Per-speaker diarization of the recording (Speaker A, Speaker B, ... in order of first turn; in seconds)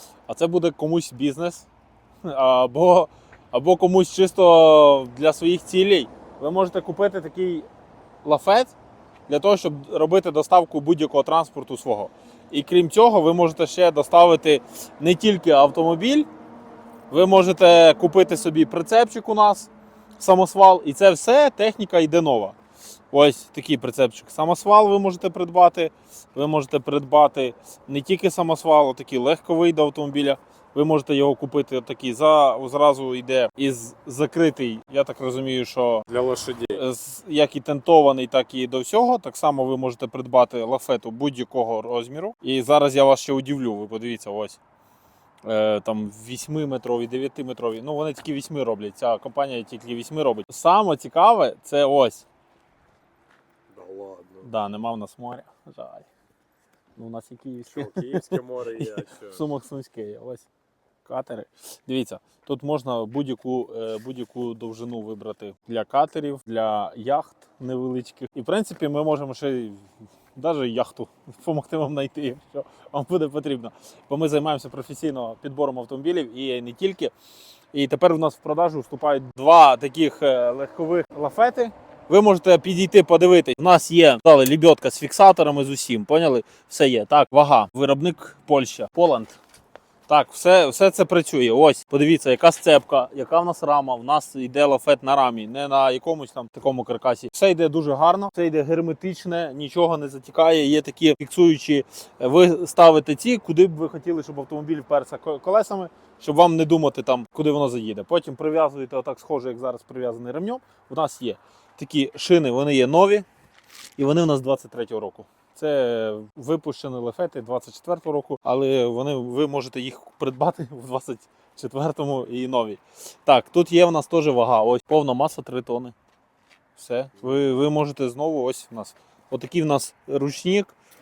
Speaker A: 0.3-1.7, 2.2-7.7, 8.2-8.7, 9.3-16.3, 17.1-22.6, 23.1-36.1, 36.7-44.6, 45.4-52.2, 54.4-56.1, 57.0-60.5, 61.0-69.8, 70.3-77.1, 77.7-89.4, 90.1-113.2, 114.0-125.9, 126.8-130.7
Speaker B: 36.1-36.8, 53.7-54.5, 57.7-59.4